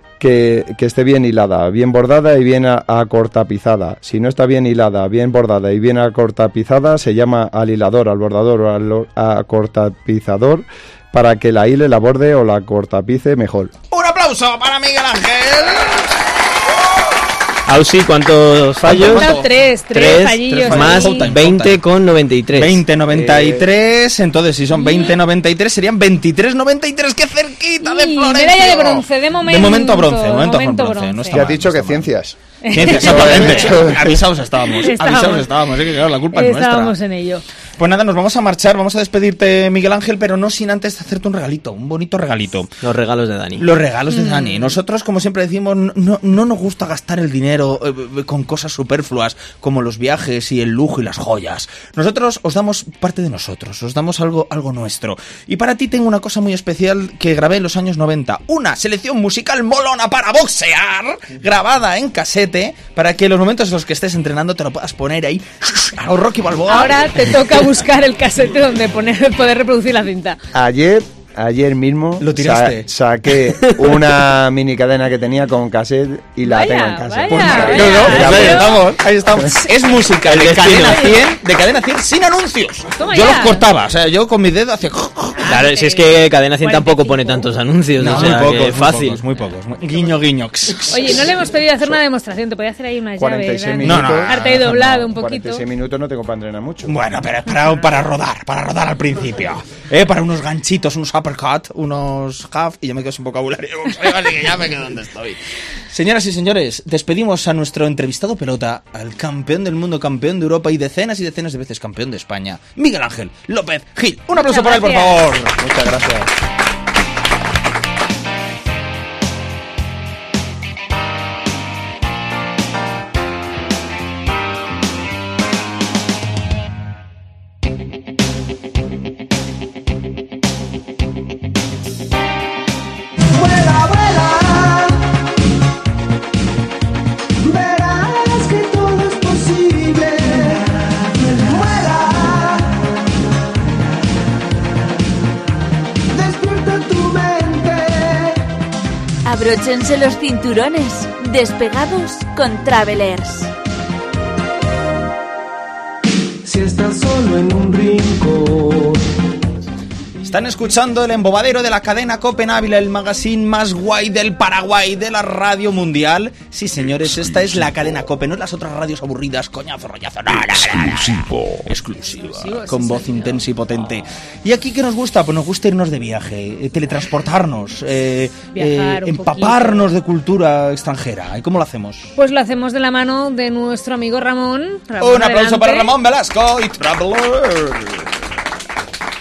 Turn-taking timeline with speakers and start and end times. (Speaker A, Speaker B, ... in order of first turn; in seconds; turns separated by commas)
Speaker A: 0.2-13.7, Speaker B: 13.9-16.1, Speaker C: 17.7-19.4, Speaker B: 18.8-21.8, Speaker D: 19.0-21.3, Speaker C: 19.9-22.8, Speaker B: 22.5-32.1, Speaker A: 23.1-23.6, Speaker D: 24.7-25.1, Speaker D: 27.8-31.4, Speaker A: 31.3-34.2, Speaker D: 32.6-33.7, Speaker B: 32.7-36.9, Speaker D: 34.8-35.5, Speaker D: 36.3-37.4, Speaker B: 37.8-42.7, Speaker C: 42.8-43.7, Speaker B: 43.6-67.4, Speaker D: 44.1-44.8, Speaker D: 66.7-70.4, Speaker A: 70.5-78.7, Speaker B: 72.2-72.9, Speaker D: 76.4-78.8, Speaker B: 77.3-85.5, Speaker C: 78.0-78.6, Speaker C: 80.2-81.2, Speaker D: 80.8-81.2, Speaker D: 83.0-83.6, Speaker D: 85.3-87.5, Speaker C: 85.5-89.2, Speaker B: 88.0-91.4, Speaker D: 90.9-95.6, Speaker A: 93.2-97.0, Speaker B: 93.8-94.5, Speaker B: 96.8-115.5, Speaker D: 114.3-115.2, Speaker A: 115.6-116.3, Speaker E: 133.3-135.0, Speaker E: 137.4-140.6, Speaker E: 141.2-142.7, Speaker E: 146.1-148.2, Speaker F: 149.2-153.5, Speaker E: 156.5-158.9, Speaker B: 160.2-182.1, Speaker D: 172.2-173.5, Speaker D: 178.5-179.9, Speaker D: 182.2-185.9, Speaker B: 185.0-188.1